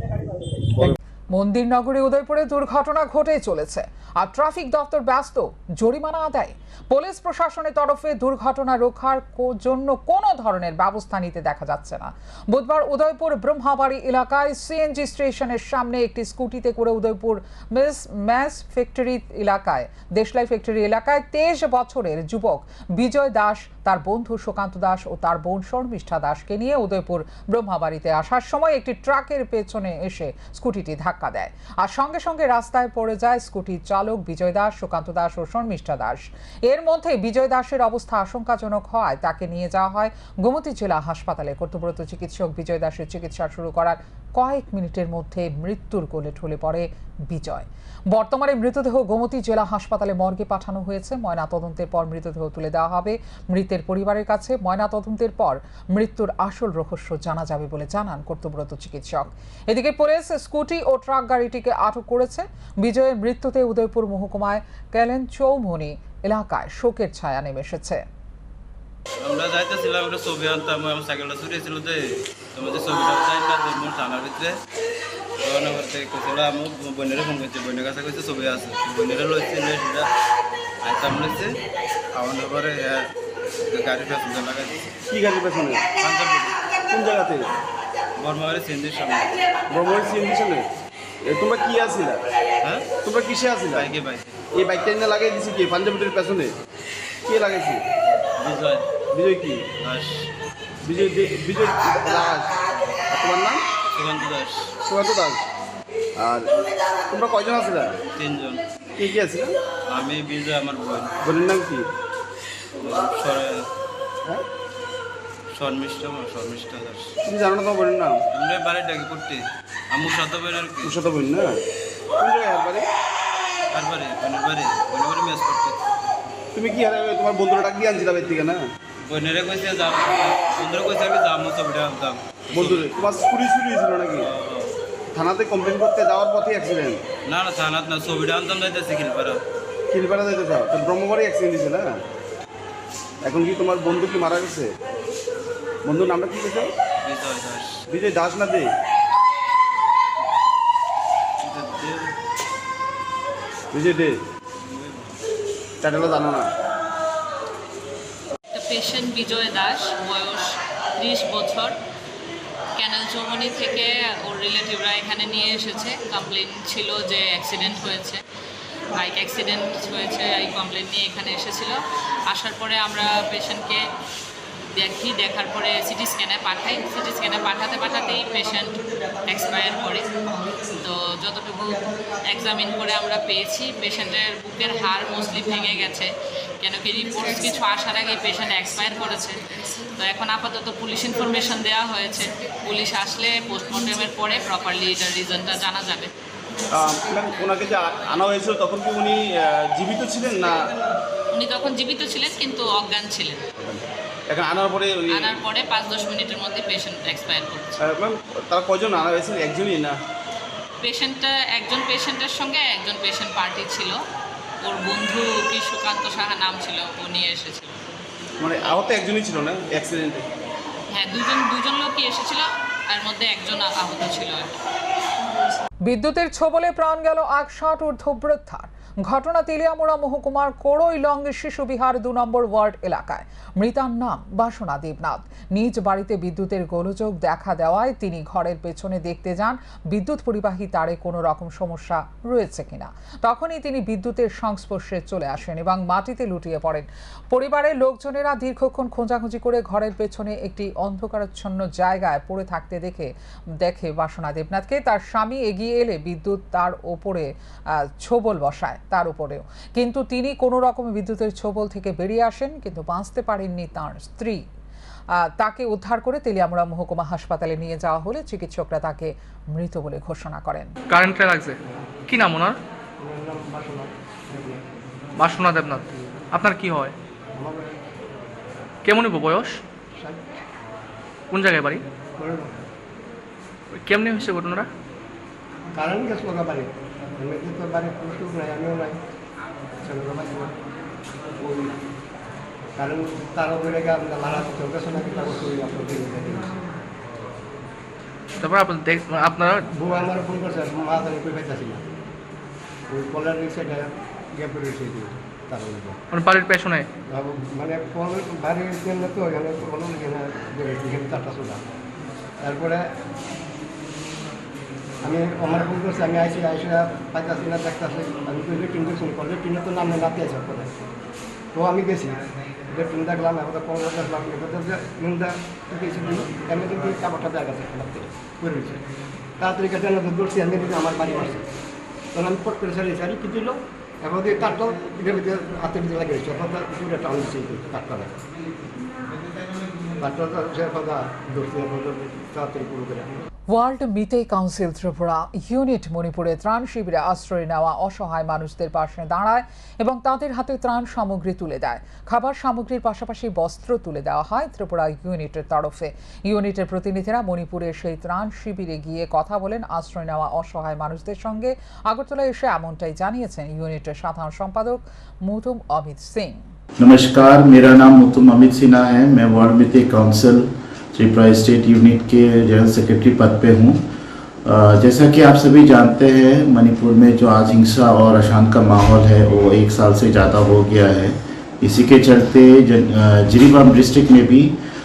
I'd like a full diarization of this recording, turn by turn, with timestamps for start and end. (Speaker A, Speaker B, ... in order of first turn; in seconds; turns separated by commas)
Speaker A: 1.3-68.0, Speaker B: 69.2-72.0, Speaker B: 72.5-74.6, Speaker B: 75.4-80.1, Speaker B: 80.8-81.5, Speaker B: 82.2-83.1, Speaker B: 83.7-84.8, Speaker C: 85.1-85.8, Speaker B: 86.0-86.5, Speaker C: 86.9-87.4, Speaker B: 88.2-89.3, Speaker C: 89.7-90.6, Speaker C: 91.3-92.2, Speaker B: 92.6-92.9, Speaker C: 93.0-93.9, Speaker B: 93.7-94.3, Speaker C: 94.5-96.5, Speaker C: 97.2-97.8, Speaker B: 98.4-98.8, Speaker C: 99.1-99.7, Speaker B: 99.8-100.3, Speaker C: 100.8-102.5, Speaker C: 103.1-103.6, Speaker B: 103.9-104.7, Speaker C: 104.8-105.4, Speaker C: 106.2-106.5, Speaker C: 107.1-107.9, Speaker B: 108.1-108.6, Speaker C: 109.0-109.5, Speaker B: 109.9-111.1, Speaker C: 111.2-111.8, Speaker B: 112.8-113.6, Speaker B: 115.5-117.1, Speaker C: 117.2-118.2, Speaker B: 118.3-119.4, Speaker B: 119.9-120.9, Speaker C: 120.8-121.5, Speaker C: 122.2-122.8, Speaker B: 123.7-125.8, Speaker C: 126.5-128.6, Speaker B: 129.1-132.9, Speaker C: 132.5-134.3, Speaker B: 134.2-134.7, Speaker C: 135.1-137.0, Speaker B: 137.3-139.4, Speaker C: 139.9-142.0, Speaker C: 143.2-144.7, Speaker C: 145.8-146.7, Speaker B: 147.0-147.8, Speaker C: 147.9-148.7, Speaker B: 151.4-152.1, Speaker C: 153.7-154.2, Speaker B: 154.7-155.1, Speaker C: 155.8-156.5, Speaker D: 158.5-161.7, Speaker D: 162.8-168.2, Speaker D: 168.9-171.8, Speaker D: 172.3-173.8, Speaker D: 174.7-180.1, Speaker D: 180.8-186.1, Speaker D: 186.6-189.4, Speaker D: 190.0-196.1, Speaker C: 196.7-200.7, Speaker D: 201.3-203.4, Speaker C: 203.6-205.4, Speaker D: 205.2-207.8, Speaker C: 207.8-209.9, Speaker D: 210.8-214.0, Speaker D: 214.6-217.7, Speaker C: 218.4-220.2, Speaker D: 220.9-224.5, Speaker A: 225.8-253.1, Speaker A: 253.6-264.4, Speaker A: 265.1-270.7, Speaker E: 270.9-271.6, Speaker E: 272.1-272.6, Speaker F: 273.0-274.6, Speaker E: 275.2-276.9, Speaker F: 277.4-277.7, Speaker E: 278.8-279.6, Speaker F: 280.0-280.3, Speaker E: 281.3-281.8, Speaker F: 282.2-282.6, Speaker E: 283.7-284.7, Speaker F: 285.8-289.0, Speaker F: 289.8-290.5, Speaker F: 291.4-291.7, Speaker F: 292.8-296.5, Speaker E: 298.4-299.7, Speaker F: 299.8-301.8, Speaker F: 302.9-306.0, Speaker E: 306.1-306.9, Speaker F: 307.1-311.6, Speaker F: 312.4-312.8, Speaker F: 315.0-320.7, Speaker F: 321.5-322.2, Speaker F: 322.7-328.8, Speaker F: 329.4-331.4, Speaker F: 332.1-338.1, Speaker F: 340.0-343.1, Speaker A: 343.5-366.4, Speaker G: 366.8-373.8, Speaker G: 374.4-384.5